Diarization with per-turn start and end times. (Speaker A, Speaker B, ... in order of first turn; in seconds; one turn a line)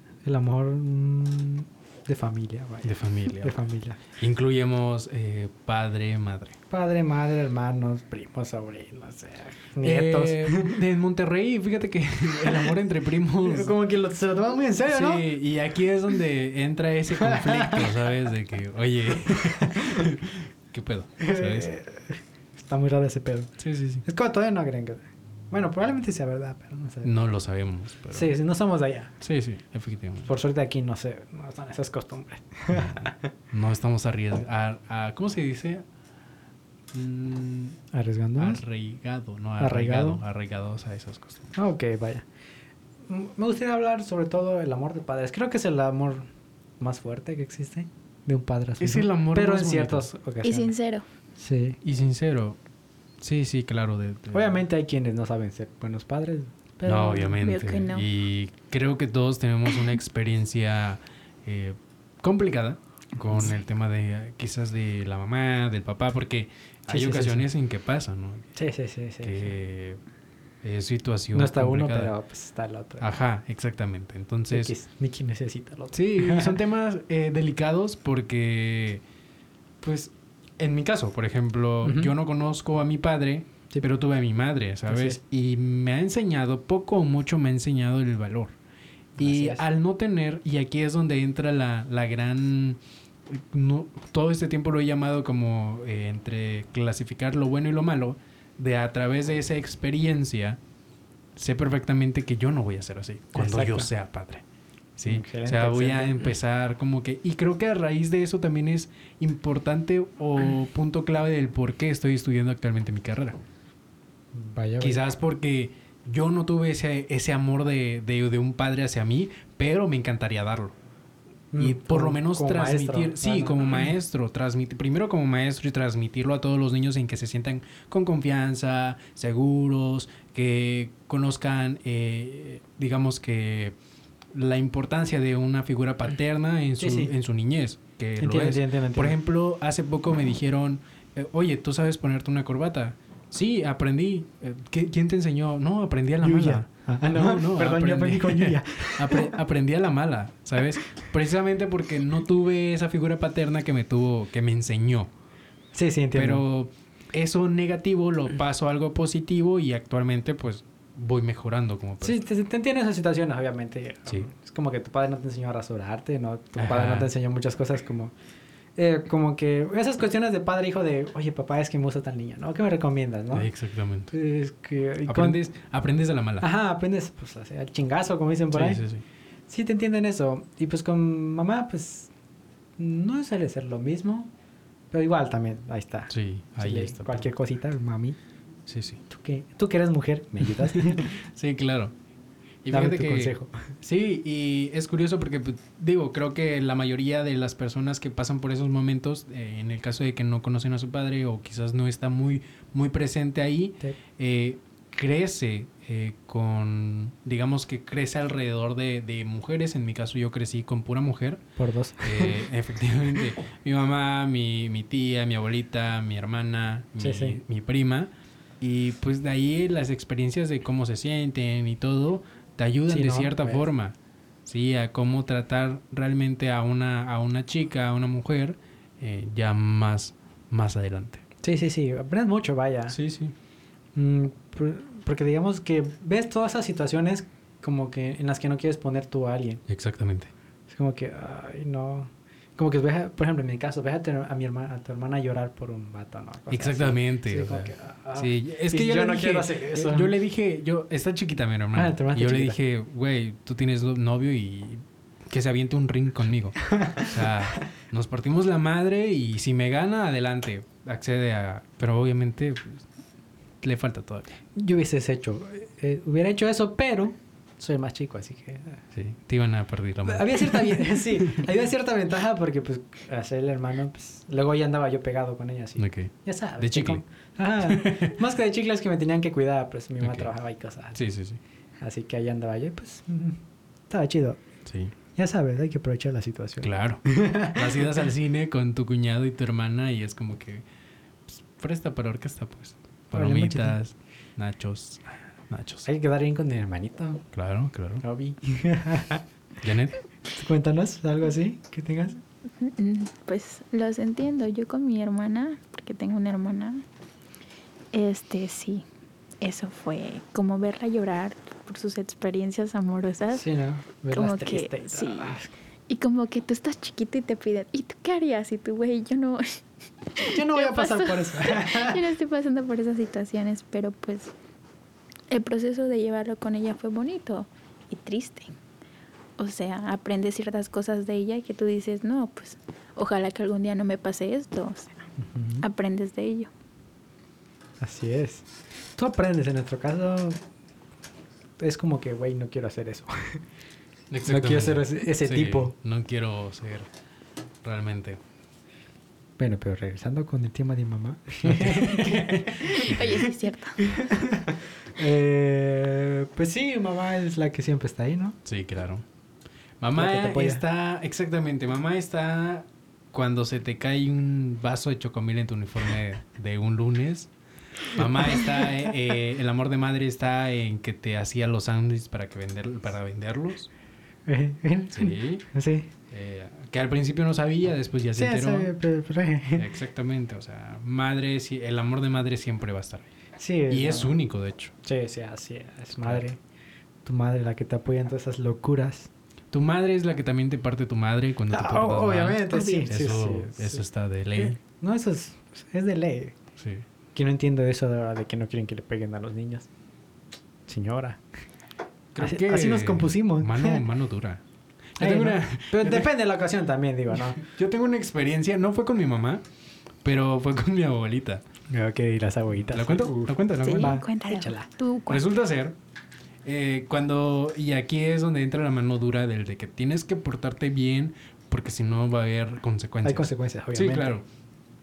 Speaker A: 0.2-4.0
Speaker B: 2.8-3.5
Speaker B: 4.1-6.6
Speaker A: 6.7-10.7
Speaker B: 9.8-13.7
Speaker A: 12.4-12.7
Speaker A: 13.4-15.2
Speaker B: 14.9-21.7
Speaker A: 17.2-17.9
Speaker A: 19.5-20.0
Speaker A: 21.2-27.1
Speaker B: 23.6-24.0
Speaker B: 27.0-28.3
Speaker A: 28.1-29.1
Speaker B: 29.2-30.3
Speaker A: 30.2-33.3
Speaker B: 32.7-35.8
Speaker B: 36.9-37.8
Speaker A: 37.9-38.6
Speaker B: 38.4-41.5
Speaker A: 39.6-40.2
Speaker A: 41.5-42.2
Speaker A: 43.1-46.3
Speaker A: 46.8-50.7
Speaker B: 48.8-50.1
Speaker C: 50.4-51.0
Speaker A: 51.4-51.8
Speaker B: 51.8-52.6
Speaker B: 53.2-54.6
Speaker A: 54.3-57.4
Speaker B: 56.9-68.5
Speaker C: 57.4-58.0
Speaker A: 66.9-67.5
Speaker A: 68.5-69.5
Speaker B: 69.2-70.0
Speaker B: 70.6-72.1
Speaker A: 71.3-73.1
Speaker B: 73.0-74.7
Speaker A: 74.5-76.6
Speaker B: 75.9-79.0
Speaker B: 79.8-88.5
Speaker A: 81.8-82.1
Speaker A: 84.9-85.2
Speaker A: 89.2-89.7
Speaker B: 89.2-100.6
Speaker B: 101.3-104.4
Speaker A: 103.3-103.9
Speaker B: 105.0-113.4
Speaker A: 105.0-106.3
Speaker A: 114.3-115.1
Speaker B: 114.8-120.7
Speaker A: 121.5-123.9
Speaker B: 121.6-133.8
Speaker B: 134.3-155.1
Speaker A: 136.8-137.1
Speaker A: 138.2-139.2
Speaker A: 146.2-149.4
Speaker A: 155.7-156.4
Speaker B: 156.1-162.2
Speaker A: 162.0-168.1
Speaker B: 166.6-167.1
Speaker A: 168.8-173.5
Speaker B: 173.3-174.1
Speaker A: 174.1-175.4
Speaker B: 175.1-176.4
Speaker A: 176.4-178.8
Speaker B: 178.5-179.0
Speaker A: 179.5-182.1
Speaker A: 182.8-184.3
Speaker A: 184.9-188.2
Speaker B: 186.1-187.3
Speaker B: 188.7-189.0
Speaker A: 189.1-191.2
Speaker B: 190.6-191.9
Speaker B: 192.6-211.4
Speaker A: 192.7-193.5
Speaker A: 211.6-212.4
Speaker B: 212.0-231.2
Speaker A: 217.0-217.4
Speaker A: 222.9-223.7
Speaker A: 231.4-233.0
Speaker B: 232.9-233.3
Speaker A: 233.9-239.6
Speaker B: 239.7-240.3
Speaker A: 240.7-250.1
Speaker B: 246.5-262.8
Speaker A: 251.7-252.6
Speaker A: 256.7-257.1
Speaker B: 263.6-264.4
Speaker A: 264.5-268.8
Speaker B: 268.9-271.4
Speaker A: 270.1-281.0
Speaker B: 275.8-277.0
Speaker B: 277.6-278.1
Speaker B: 280.0-280.3
Speaker B: 280.9-281.4
Speaker A: 281.8-284.4
Speaker B: 284.6-284.9
Speaker A: 285.1-288.0
Speaker B: 286.6-290.6
Speaker B: 291.3-295.9
Speaker A: 293.1-293.8
Speaker A: 295.9-297.2
Speaker B: 297.3-298.0
Speaker A: 298.0-299.2
Speaker B: 299.6-300.0
Speaker A: 300.3-302.2
Speaker C: 302.6-306.8
Speaker C: 307.9-308.8
Speaker C: 309.4-313.4
Speaker A: 313.3-315.5
Speaker C: 314.1-315.4
Speaker C: 315.9-319.6
Speaker C: 320.2-324.3
Speaker A: 320.2-322.0
Speaker C: 325.3-328.5
Speaker C: 329.4-335.1
Speaker A: 335.2-335.6
Speaker C: 335.6-336.5
Speaker A: 337.8-340.4
Speaker A: 341.6-343.4
Speaker B: 344.1-346.9
Speaker A: 344.2-345.7
Speaker B: 347.6-348.2
Speaker A: 349.4-353.2
Speaker B: 351.4-353.2
Speaker C: 352.7-353.8
Speaker A: 353.8-358.4
Speaker B: 358.4-359.0
Speaker B: 359.8-367.3
Speaker A: 359.9-360.6
Speaker B: 367.9-373.7
Speaker A: 374.3-375.9
Speaker B: 374.9-375.4
Speaker B: 376.1-378.7
Speaker A: 378.1-379.7
Speaker B: 379.6-383.1
Speaker A: 383.4-384.1
Speaker B: 383.7-384.7
Speaker A: 384.8-386.4
Speaker A: 387.0-389.1
Speaker B: 389.5-394.6
Speaker A: 391.5-393.8
Speaker A: 394.4-396.4
Speaker B: 396.6-396.8
Speaker A: 397.1-399.7
Speaker A: 400.7-401.2
Speaker B: 402.1-404.4
Speaker A: 402.2-403.8
Speaker B: 405.0-406.1
Speaker A: 405.0-407.4
Speaker B: 407.1-409.4
Speaker B: 410.0-411.4
Speaker A: 411.7-414.7
Speaker B: 412.7-414.0
Speaker C: 413.6-415.2
Speaker B: 415.1-415.8
Speaker B: 416.4-424.2
Speaker A: 423.0-424.1